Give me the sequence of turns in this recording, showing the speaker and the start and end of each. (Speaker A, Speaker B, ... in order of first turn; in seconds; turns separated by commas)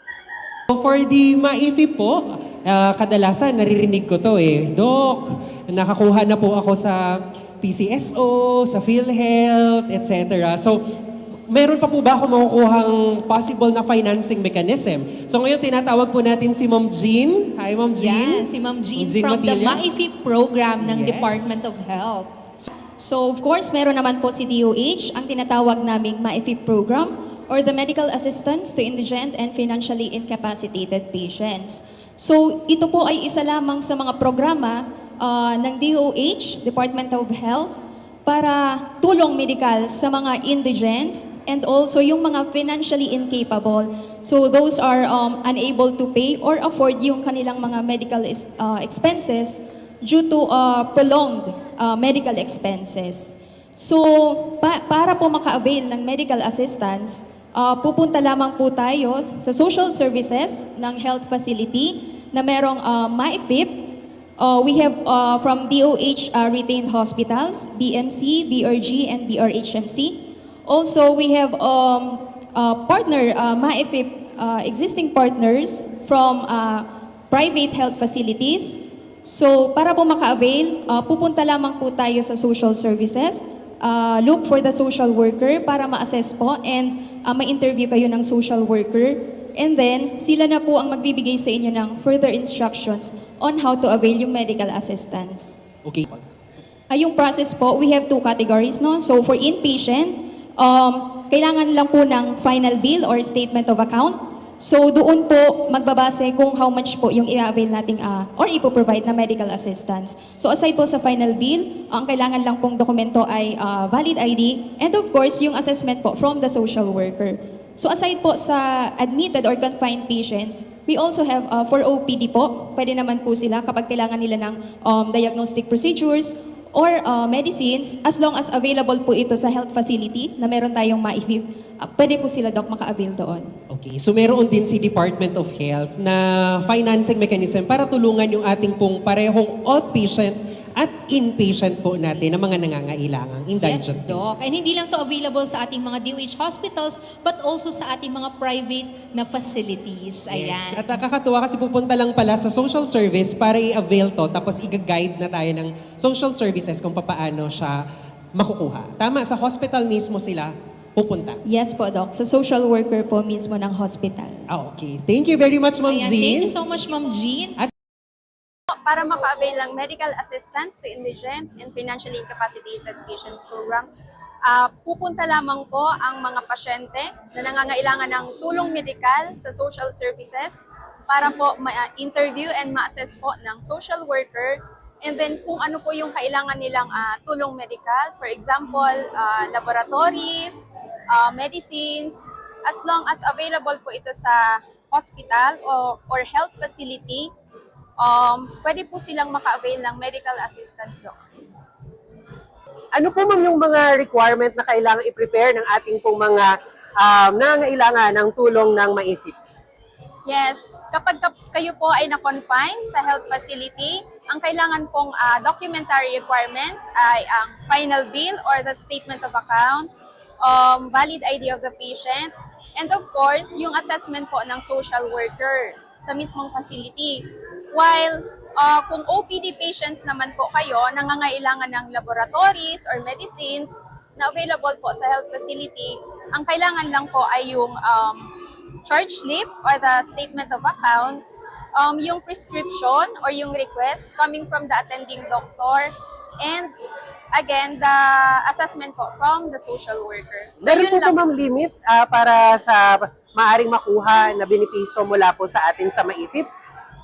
Speaker A: 0.7-10.8, Speaker A: 11.5-19.8, Speaker B: 18.0-22.4, Speaker A: 20.8-21.8, Speaker C: 23.0-95.6, Speaker A: 95.8-96.2, Speaker C: 96.9-133.5, Speaker A: 133.7-144.6, Speaker B: 143.6-150.9, Speaker A: 150.3-157.8, Speaker A: 158.3-161.4, Speaker C: 161.4-164.4, Speaker A: 164.5-166.5, Speaker B: 165.9-167.6, Speaker D: 168.7-173.9, Speaker D: 174.4-197.3, Speaker D: 198.0-201.2, Speaker E: 202.9-209.3, Speaker D: 210.2-219.9, Speaker D: 220.4-241.2, Speaker D: 241.8-246.7, Speaker D: 247.3-251.2, Speaker E: 250.6-256.5